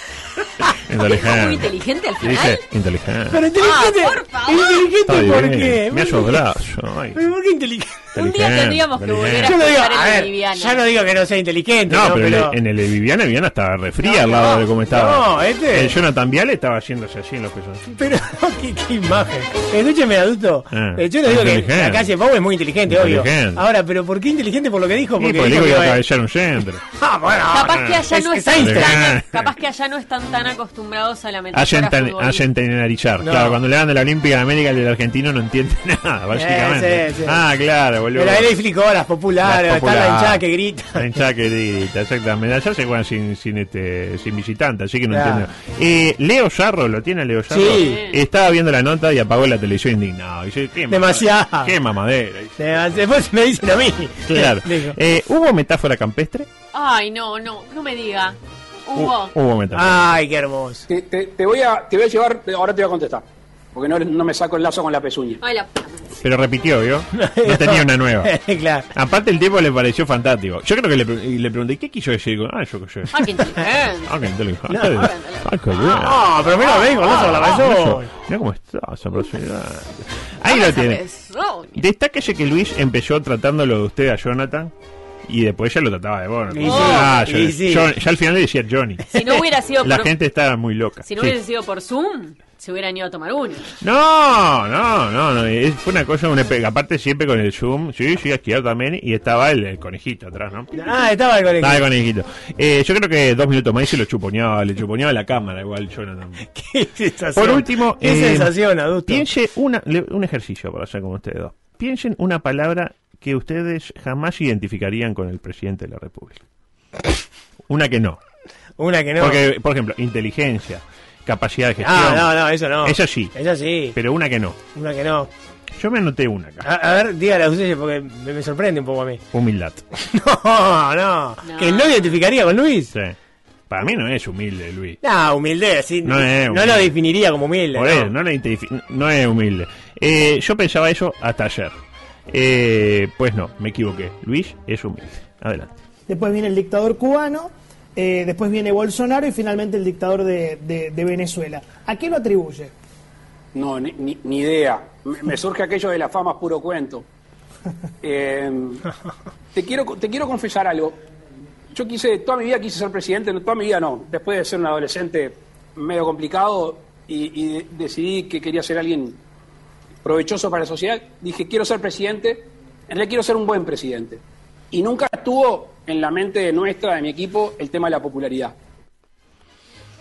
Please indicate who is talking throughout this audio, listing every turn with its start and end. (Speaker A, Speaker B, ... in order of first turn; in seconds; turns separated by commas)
Speaker A: 0.9-3.5, Speaker B: 1.0-2.6, Speaker C: 3.3-6.4, Speaker B: 3.5-5.0, Speaker A: 5.0-7.2, Speaker C: 7.1-8.2, Speaker A: 8.1-9.6, Speaker B: 8.1-10.8, Speaker C: 9.4-12.6, Speaker A: 11.9-18.2, Speaker B: 14.1-14.5, Speaker C: 14.4-16.0, Speaker C: 18.0-26.0, Speaker A: 20.7-22.1, Speaker A: 22.9-23.6, Speaker A: 25.2-26.8, Speaker C: 26.9-29.1, Speaker B: 27.5-32.5, Speaker A: 28.6-29.4, Speaker A: 31.5-38.5, Speaker C: 33.2-33.6, Speaker C: 36.3-37.4, Speaker C: 38.1-41.0, Speaker A: 39.4-40.4, Speaker A: 40.9-52.9, Speaker C: 45.1-45.5, Speaker C: 47.5-48.0, Speaker B: 47.7-48.2, Speaker C: 50.9-51.7, Speaker C: 52.6-55.0, Speaker A: 54.3-56.5, Speaker B: 56.7-59.3, Speaker A: 58.9-60.1, Speaker C: 59.7-60.9, Speaker D: 60.9-65.4, Speaker B: 65.4-66.2, Speaker A: 66.2-68.3, Speaker C: 67.1-68.9, Speaker A: 68.9-76.5, Speaker B: 73.1-74.2, Speaker C: 74.7-75.0, Speaker B: 74.9-75.5, Speaker C: 75.8-78.1, Speaker B: 76.6-77.4, Speaker A: 77.0-81.0, Speaker B: 80.4-81.8, Speaker A: 81.7-84.7, Speaker A: 85.3-91.4, Speaker C: 86.5-87.9, Speaker B: 86.6-87.3, Speaker B: 89.1-90.1, Speaker B: 91.0-93.7, Speaker A: 93.8-100.7, Speaker C: 100.7-101.8, Speaker A: 101.6-106.5, Speaker C: 106.5-109.2, Speaker A: 107.4-116.4, Speaker A: 117.7-118.2, Speaker C: 118.8-119.4, Speaker A: 119.2-123.4, Speaker C: 121.8-124.0, Speaker A: 123.9-124.6, Speaker C: 124.7-125.3, Speaker A: 125.8-126.7, Speaker C: 126.6-129.2, Speaker A: 129.3-129.8, Speaker C: 129.9-132.9, Speaker B: 131.4-132.2, Speaker A: 133.7-135.0, Speaker C: 135.0-138.1, Speaker A: 136.0-136.9, Speaker A: 137.7-141.7, Speaker A: 142.3-145.7, Speaker E: 146.1-152.7, Speaker D: 153.5-157.1, Speaker D: 158.0-158.9, Speaker D: 159.5-161.0, Speaker D: 161.7-169.2, Speaker D: 170.0-178.6